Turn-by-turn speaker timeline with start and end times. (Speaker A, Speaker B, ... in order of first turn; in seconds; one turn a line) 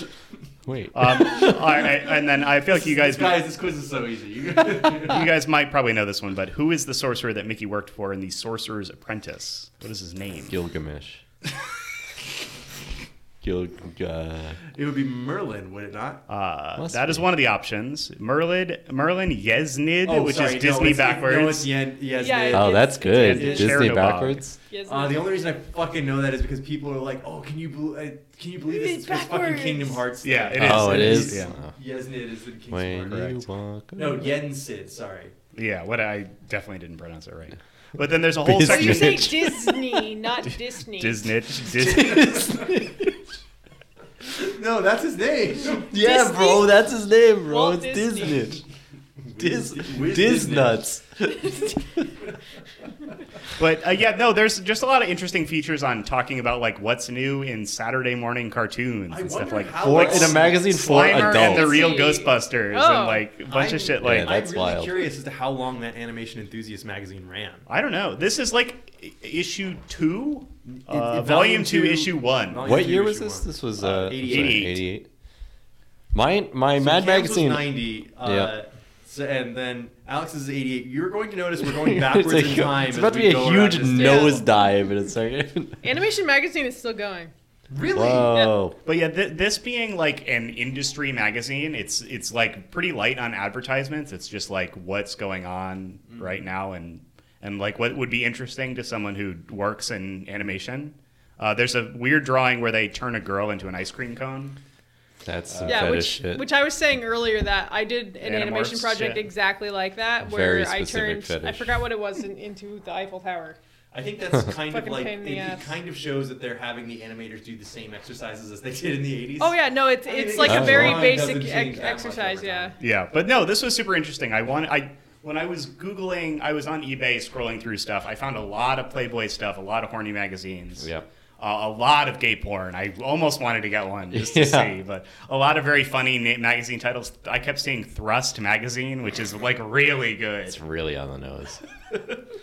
Speaker A: 0.6-1.8
Speaker B: 0.9-3.5
Speaker C: 2.7-5.3
Speaker B: 5.0-10.5
Speaker A: 10.5-11.2
Speaker A: 13.4-14.6
Speaker C: 14.7-16.2
Speaker B: 16.3-21.7
Speaker A: 16.8-17.3
Speaker C: 20.0-23.9
Speaker D: 22.1-23.5
Speaker A: 22.5-24.6
Speaker B: 23.0-24.5
Speaker D: 24.7-25.2
Speaker C: 24.9-33.4
Speaker D: 28.7-30.0
Speaker B: 30.2-31.5
Speaker A: 30.6-31.7
Speaker A: 32.7-34.3
Speaker C: 34.0-35.3
Speaker B: 35.5-39.5
Speaker A: 38.4-40.0
Speaker D: 38.6-41.2
Speaker B: 40.9-42.7
Speaker A: 41.7-43.1
Speaker C: 44.4-45.9
Speaker A: 45.8-48.6
Speaker D: 45.9-46.7
Speaker D: 47.5-48.5
Speaker C: 49.2-50.8
Speaker A: 49.3-52.1
Speaker D: 51.4-51.7
Speaker B: 53.5-64.4
Speaker C: 59.1-60.7
Speaker A: 59.8-61.9
Speaker D: 61.1-63.3
Speaker C: 63.5-67.7
Speaker A: 64.0-65.1
Speaker B: 67.7-72.7
Speaker C: 70.7-74.7
Speaker A: 72.6-75.1
Speaker B: 74.1-74.8
Speaker A: 76.1-78.5
Speaker C: 76.8-84.4
Speaker A: 81.8-85.8
Speaker D: 83.9-84.5
Speaker D: 85.8-87.3
Speaker C: 87.7-88.5
Speaker A: 87.9-88.8
Speaker B: 88.8-104.5
Speaker A: 105.2-106.4
Speaker B: 105.5-106.1
Speaker D: 105.7-113.6
Speaker B: 108.2-109.2
Speaker A: 110.2-111.7
Speaker C: 113.9-122.7
Speaker D: 114.7-115.7
Speaker D: 119.4-122.8
Speaker A: 120.4-121.0
Speaker B: 122.8-130.8
Speaker A: 130.8-131.1
Speaker B: 131.4-140.6
Speaker A: 134.1-134.7
Speaker A: 140.5-141.6